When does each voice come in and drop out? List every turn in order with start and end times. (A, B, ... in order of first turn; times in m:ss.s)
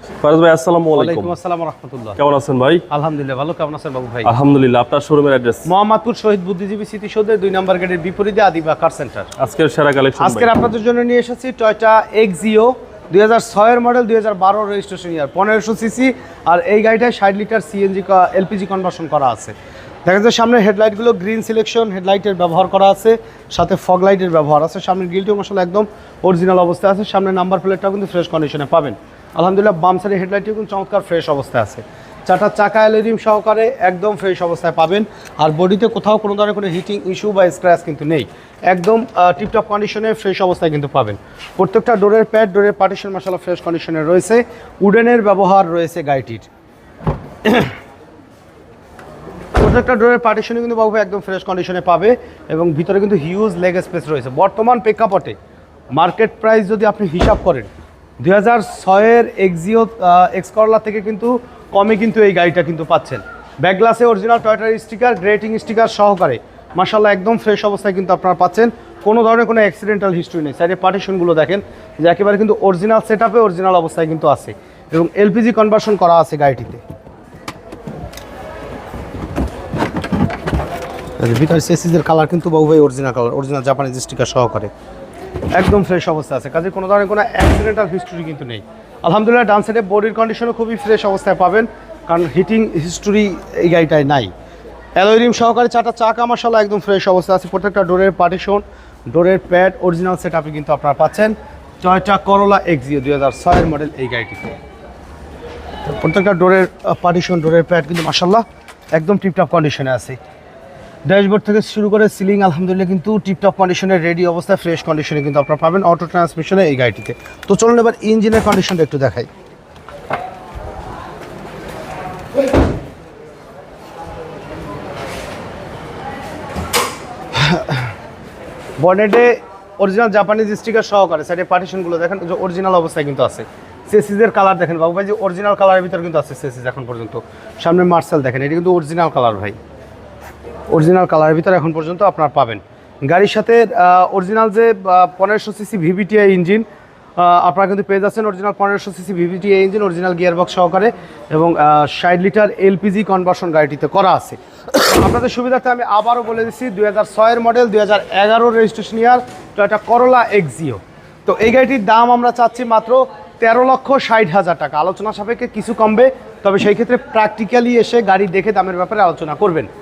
0:00.2-0:01.3 A
0:00.9-0:02.2 B
0:02.2-0:02.8 A
0:02.9-0:04.3 B
0:04.2-0:05.7 A
0:05.6-0:09.3 B
0:09.4-0:10.5 A
0:10.2-0:19.5 B
0:20.0-0:46.5 B
0:47.4-0:47.7 B
0:49.6-0:55.4 B
0:55.9-0:57.7 B
0:58.2-1:16.8 B
1:21.2-1:24.7 B
1:25.5-1:34.3 B
1:35.0-1:44.5 B
1:45.8-1:50.2 B
1:51.0-1:59.3 B
2:07.3-2:07.9 B
2:08.8-2:19.6 B
2:20.7-2:26.6 B
2:27.2-2:49.7 B